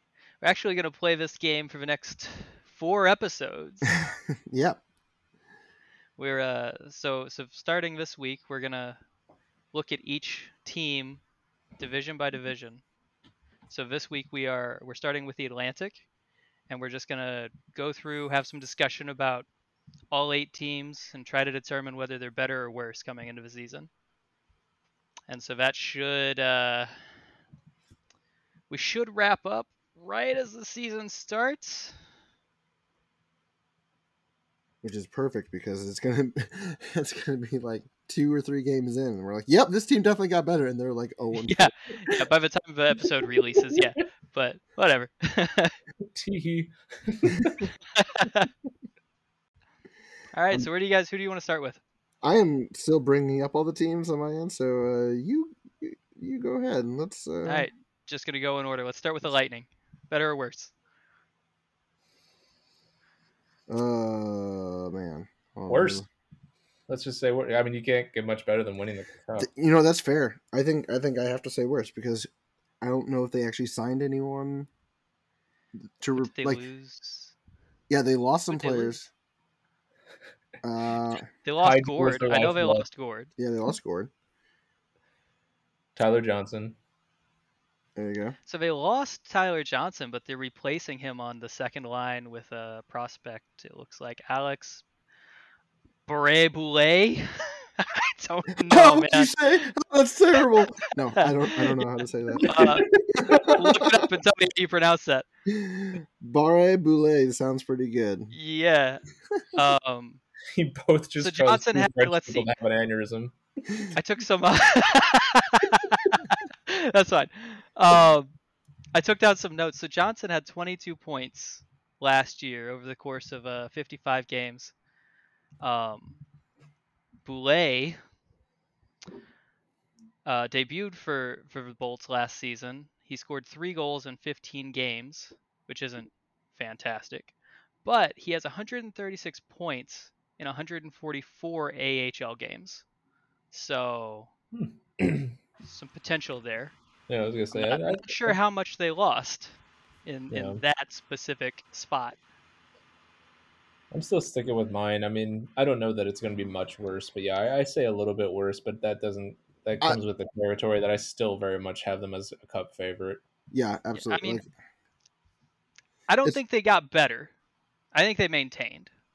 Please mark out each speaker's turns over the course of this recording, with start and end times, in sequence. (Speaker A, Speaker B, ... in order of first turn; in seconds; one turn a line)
Speaker A: 0.4-3.9
Speaker B: 4.0-4.8
Speaker A: 6.2-9.0
Speaker A: 9.7-11.2
Speaker A: 11.8-12.8
Speaker A: 13.7-16.0
Speaker A: 16.7-19.5
Speaker A: 20.1-23.9
Speaker A: 25.3-26.9
Speaker A: 28.7-32.0
Speaker B: 34.8-41.7
Speaker A: 41.4-45.7
Speaker C: 46.1-47.7
Speaker A: 48.0-48.5
Speaker A: 50.3-51.8
Speaker B: 52.2-57.7
Speaker A: 57.5-60.7
Speaker B: 63.7-66.1
Speaker C: 65.7-66.0
Speaker C: 66.9-69.5
Speaker B: 69.4-72.3
Speaker B: 72.8-74.7
Speaker B: 76.0-76.6
Speaker A: 76.2-77.3
Speaker B: 77.9-79.1
Speaker A: 78.5-79.0
Speaker B: 80.6-81.2
Speaker A: 81.4-83.3
Speaker C: 81.6-82.9
Speaker B: 83.4-84.1
Speaker C: 86.0-86.8
Speaker B: 88.0-88.4
Speaker A: 88.5-94.8
Speaker A: 96.1-99.3
Speaker B: 98.7-104.0
Speaker A: 101.2-101.9
Speaker C: 102.4-103.5
Speaker A: 102.4-102.9
Speaker A: 103.4-105.3
Speaker B: 105.5-108.3
Speaker A: 108.3-109.0
Speaker A: 109.5-110.2
Speaker C: 110.5-113.8
Speaker A: 111.2-112.5
Speaker A: 113.9-118.3
Speaker A: 119.0-124.7
Speaker A: 125.6-126.2
Speaker A: 127.2-128.0
Speaker A: 130.2-137.3
Speaker A: 137.8-142.8
Speaker A: 143.5-144.3
Speaker C: 144.5-145.3
Speaker A: 145.6-146.8
Speaker C: 147.1-148.4
Speaker A: 147.5-152.2
Speaker C: 150.3-150.6
Speaker C: 153.9-163.2
Speaker B: 163.5-164.5
Speaker A: 163.9-164.4
Speaker A: 166.1-167.3
Speaker A: 167.9-168.9